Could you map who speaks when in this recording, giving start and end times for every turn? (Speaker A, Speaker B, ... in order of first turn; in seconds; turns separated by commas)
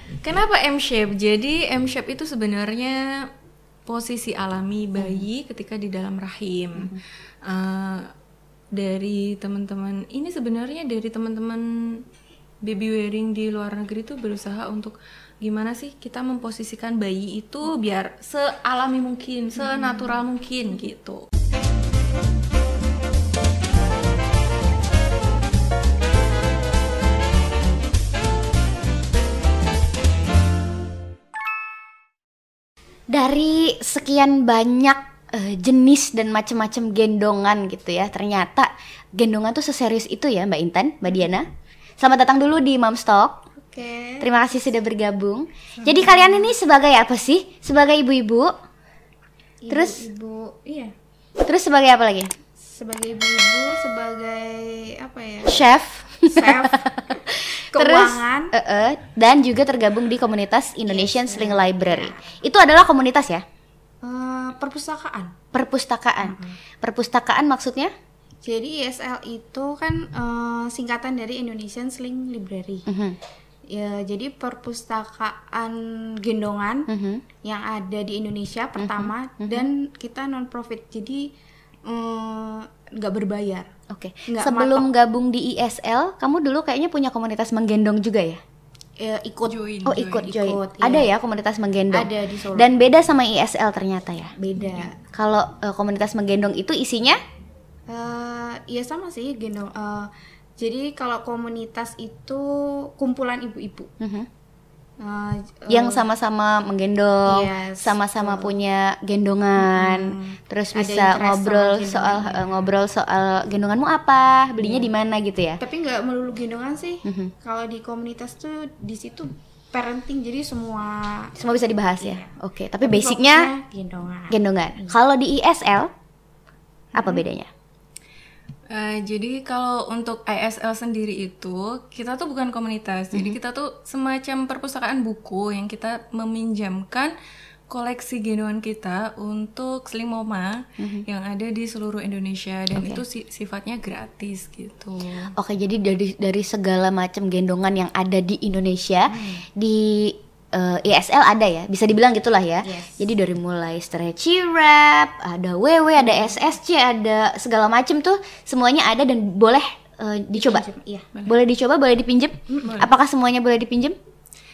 Speaker A: 0.2-3.3, Speaker A: 3.9-8.1, Speaker B: 5.0-5.2, Speaker A: 8.7-12.0, Speaker A: 12.6-21.2, Speaker B: 33.1-41.5, Speaker B: 42.0-43.4, Speaker C: 43.6-44.3, Speaker B: 44.2-48.5, Speaker C: 45.8-46.4, Speaker C: 49.6-50.9, Speaker B: 49.7-50.0, Speaker B: 51.4-52.3, Speaker C: 52.6-55.6, Speaker B: 55.5-63.4, Speaker C: 56.2-56.9, Speaker C: 57.7-58.5, Speaker C: 60.9-62.2, Speaker C: 64.0-65.3, Speaker B: 65.5-67.9, Speaker C: 66.2-66.6, Speaker C: 68.4-72.9, Speaker B: 72.9-73.2, Speaker C: 73.7-76.9, Speaker B: 76.9-77.2, Speaker C: 77.4-81.3, Speaker B: 78.8-79.7, Speaker C: 81.8-83.7, Speaker B: 83.9-88.4, Speaker C: 84.3-84.9, Speaker C: 89.0-89.6, Speaker A: 89.4-90.3, Speaker B: 89.8-97.2, Speaker C: 90.1-91.1, Speaker C: 91.9-92.7, Speaker C: 94.4-94.9, Speaker C: 97.9-103.9, Speaker B: 104.0-104.3, Speaker C: 105.0-106.1, Speaker B: 105.7-115.6, Speaker C: 107.2-108.5, Speaker C: 109.5-112.7, Speaker C: 114.6-114.9, Speaker C: 115.6-121.3, Speaker B: 117.0-117.3, Speaker B: 121.4-123.5, Speaker C: 122.0-124.9, Speaker B: 124.3-125.9, Speaker B: 126.9-127.5, Speaker A: 128.7-137.1, Speaker B: 133.1-133.4, Speaker A: 137.7-145.3, Speaker B: 140.8-141.0, Speaker B: 142.7-143.0, Speaker B: 145.3-160.6, Speaker C: 149.1-149.4, Speaker C: 152.6-153.1, Speaker C: 156.0-156.4, Speaker C: 160.3-161.1, Speaker B: 161.2-163.9, Speaker A: 162.6-162.9